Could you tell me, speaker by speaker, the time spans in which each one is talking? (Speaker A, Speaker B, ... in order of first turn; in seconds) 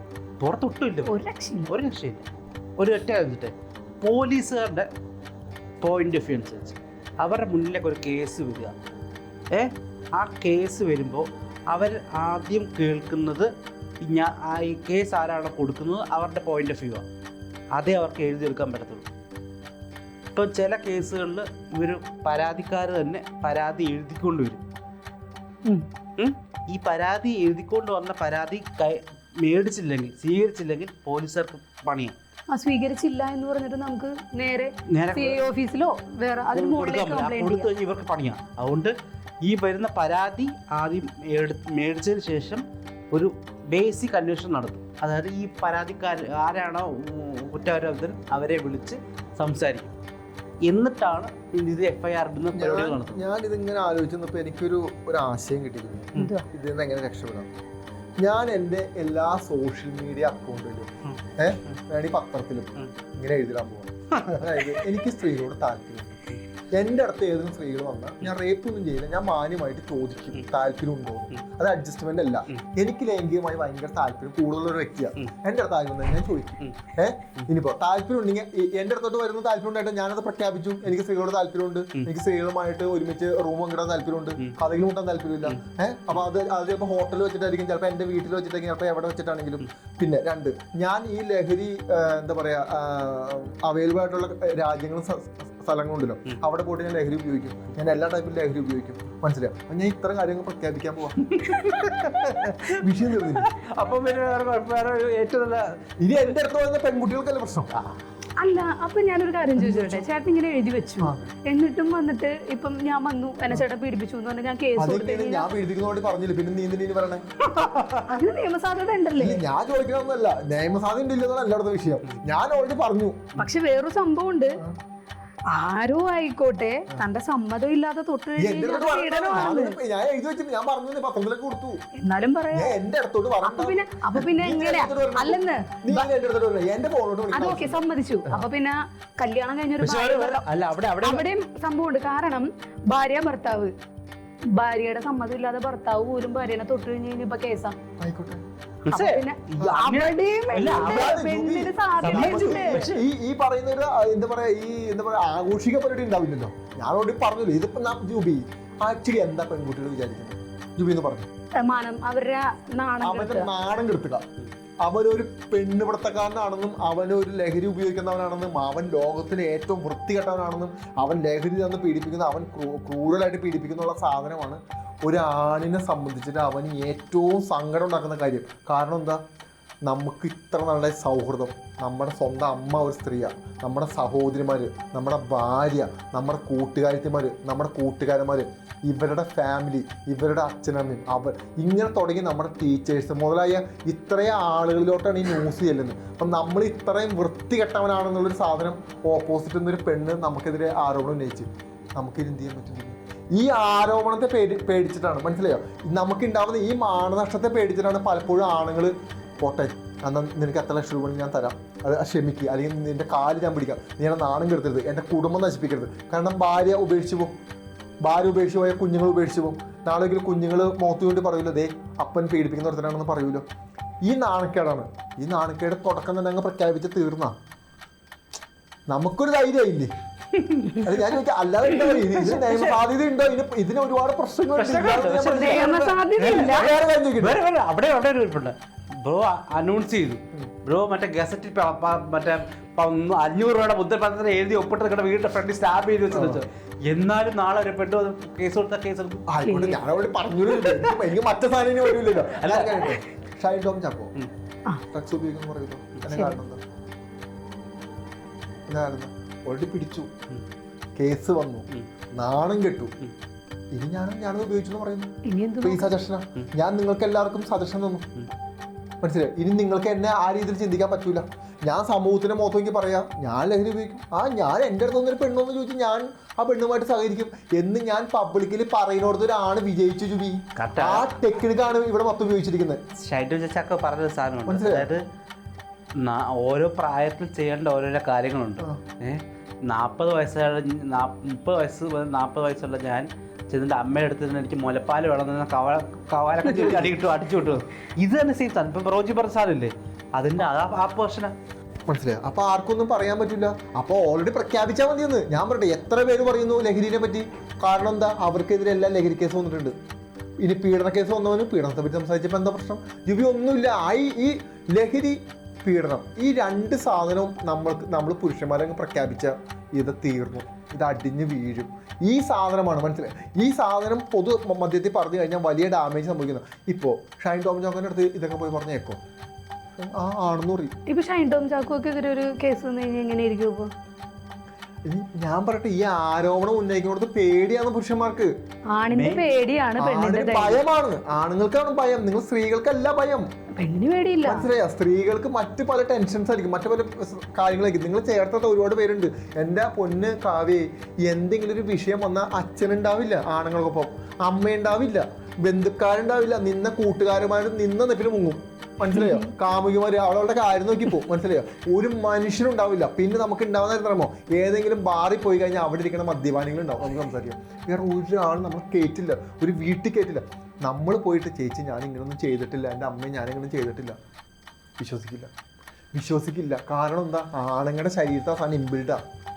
Speaker A: 0.4-1.1, 1.7-2.2, 2.8-4.9, 5.8-8.7, 9.5-13.5, 14.0-17.1, 17.7-19.1, 20.3-24.6, 26.2-32.1, 34.9-35.4, 36.5-49.9, 50.6-53.2, 64.1-64.9, 101.2-105.8, 117.5-118.2, 139.8-141.2, 148.8-151.2, 152.0-153.0, 230.3-230.9, 231.7-232.8, 234.5-249.7, 250.5-251.1, 252.0-253.0, 280.6-281.1, 283.0-285.0, 286.0-301.3, 338.9-339.3
Speaker B: 1.1-1.7, 32.5-37.7, 56.1-56.5, 108.4-115.5, 118.1-119.4, 123.3-124.6, 125.5-129.8, 132.0-132.7, 133.4-136.1, 137.3-140.4, 141.0-143.7, 144.5-147.7, 148.9-152.8, 161.6-163.5, 235.3-236.7, 249.4-249.8, 256.1-256.4, 265.2-266.0, 330.9-333.7, 338.7-340.6, 343.6-344.5
Speaker C: 52.5-57.5, 58.2-66.2, 66.7-103.5, 106.0-107.7, 109.5-110.1, 114.8-117.2, 119.2-123.5, 128.4-131.8, 132.5-138.4, 148.0-148.4, 150.7-161.3, 163.0-164.2, 164.8-179.2, 179.8-217.3, 218.0-223.4, 224.1-227.3, 228.9-229.9, 230.8-237.4, 246.1-246.4, 249.3-254.1, 254.9-256.6, 258.7-260.1, 261.0-262.9, 263.7-265.1, 265.6-268.1, 269.0-282.8, 284.4-284.9, 296.6-296.9, 301.9-309.7, 310.4-329.0, 329.8-330.7, 334.9-338.3, 339.8-343.2, 344.2-374.0, 374.8-375.3, 375.9-379.0